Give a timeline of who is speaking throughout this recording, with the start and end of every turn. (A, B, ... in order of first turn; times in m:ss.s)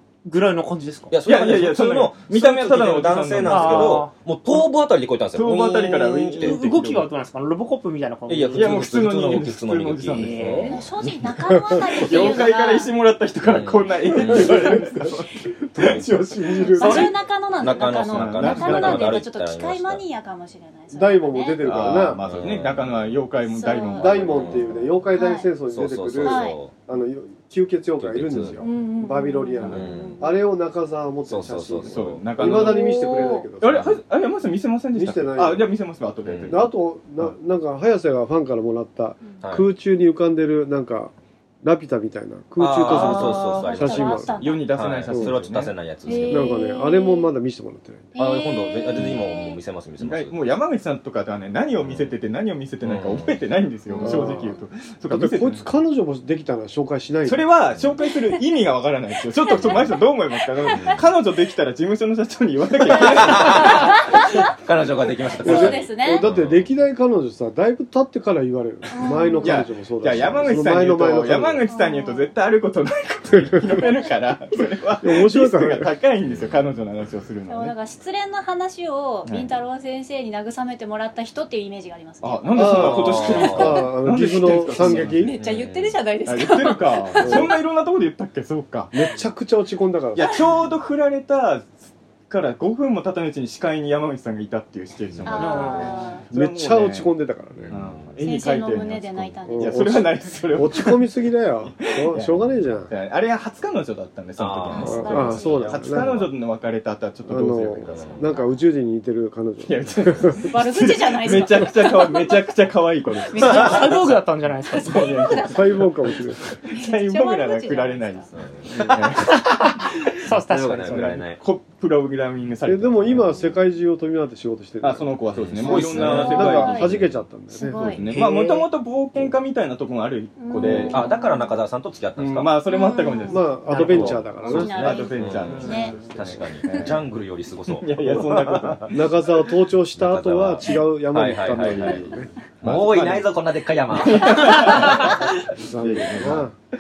0:00.2-0:01.2 A
0:01.1-0:06.6 B
0:01.2-0:04.0 C
0:03.5-0:04.1 A
0:05.4-0:07.1 C
0:06.4-0:08.8 A
0:08.3-0:10.8 B
0:08.5-0:10.6 C
0:10.1-0:10.8 A
0:10.7-0:12.9 D
0:11.9-0:16.3 C
0:13.4-0:14.7 B
0:14.3-0:15.1 E
0:15.8-0:17.1 E
0:16.6-0:21.6 D
0:16.8-0:20.0 B
0:17.7-0:19.2 C
0:20.9-0:22.2 E
0:21.6-0:24.8 C
0:22.2-0:23.2 B
0:23.5-0:24.2 D
0:24.0-0:34.0 E
0:24.1-0:24.9 B
0:25.1-0:25.5 D
0:25.7-0:26.7 B
0:26.2-0:26.6 D
0:28.0-0:28.6 B
0:28.6-0:30.3 D
0:29.6-0:29.9 C
0:29.7-0:30.2 B
0:31.3-0:32.3 B
0:31.8-0:37.4 C
0:32.5-0:33.5 D
0:34.9-0:35.7 E
0:36.3-0:36.6 B
0:36.5-0:44.4 E
0:39.4-0:39.7 B
0:42.6-0:46.5 B
0:42.9-0:43.6 C
0:42.9-0:44.8 D
0:44.4-0:45.7 C
0:45.1-0:45.4 E
0:46.0-0:47.3 D
0:46.3-0:48.1 E
0:48.2-0:49.6 D
0:48.2-0:50.4 B
0:50.0-0:55.7 C
0:51.8-0:52.1 B
0:52.8-0:53.4 B
0:53.9-0:54.2 D
0:54.0-0:54.6 E
0:55.1-0:57.5 E
0:57.2-1:03.9 C
0:58.0-0:58.4 D
0:59.4-1:01.0 D
1:00.7-1:01.0 B
1:02.9-1:04.5 D
1:03.1-1:06.7 B
1:05.4-1:06.3 D
1:05.4-1:11.6 E
1:08.9-1:09.6 D
1:09.4-1:17.8 C
1:11.7-1:12.3 D
1:13.4-1:13.7 E
1:15.0-1:15.9 E
1:16.2-1:16.6 B
1:17.5-1:23.9 D
1:22.2-1:25.3 C
1:22.5-1:25.4 E
1:22.8-1:23.8 B
1:24.6-1:27.6 D
1:25.3-1:26.0 B
1:26.3-1:28.9 C
1:27.2-1:27.5 E
1:28.9-1:30.6 E
1:30.2-1:37.1 C
1:35.1-1:35.5 B
1:35.3-1:36.3 D
1:35.3-1:36.2 A
1:36.3-1:37.8 E
1:37.7-1:38.2 B
1:37.7-1:41.1 C
1:38.2-1:40.1 D
1:39.5-1:42.9 E
1:41.7-1:48.4 C
1:44.4-1:46.3 B
1:44.7-1:45.9 D
1:44.8-1:46.2 E
1:47.2-1:50.4 E
1:47.9-1:48.3 B
1:49.6-1:54.2 C
1:50.4-1:52.4 D
1:53.3-1:54.1 D
1:53.3-1:55.4 A
1:54.7-1:55.6 D
1:54.7-1:59.5 C
1:55.4-1:56.5 E
1:56.7-1:58.3 D
1:58.3-1:59.1 B
1:59.2-2:01.2 A
2:00.3-2:01.4 B
2:00.9-2:03.4 C
2:02.6-2:08.2 E
2:04.8-2:07.0 C
2:05.4-2:07.2 B
2:06.1-2:07.0 D
2:07.5-2:08.1 D
2:07.8-2:11.1 C
2:08.1-2:08.6 B
2:10.4-2:11.6 D
2:10.6-2:12.6 B
2:12.2-2:17.0 C
2:12.6-2:13.9 D
2:13.3-2:14.8 E
2:13.7-2:18.8 B
2:14.4-2:16.0 D
2:17.7-2:19.3 C
2:18.9-2:22.3 E
2:20.0-2:25.1 B
2:21.2-2:23.3 C
2:23.9-2:26.5 C
2:25.5-2:26.5 E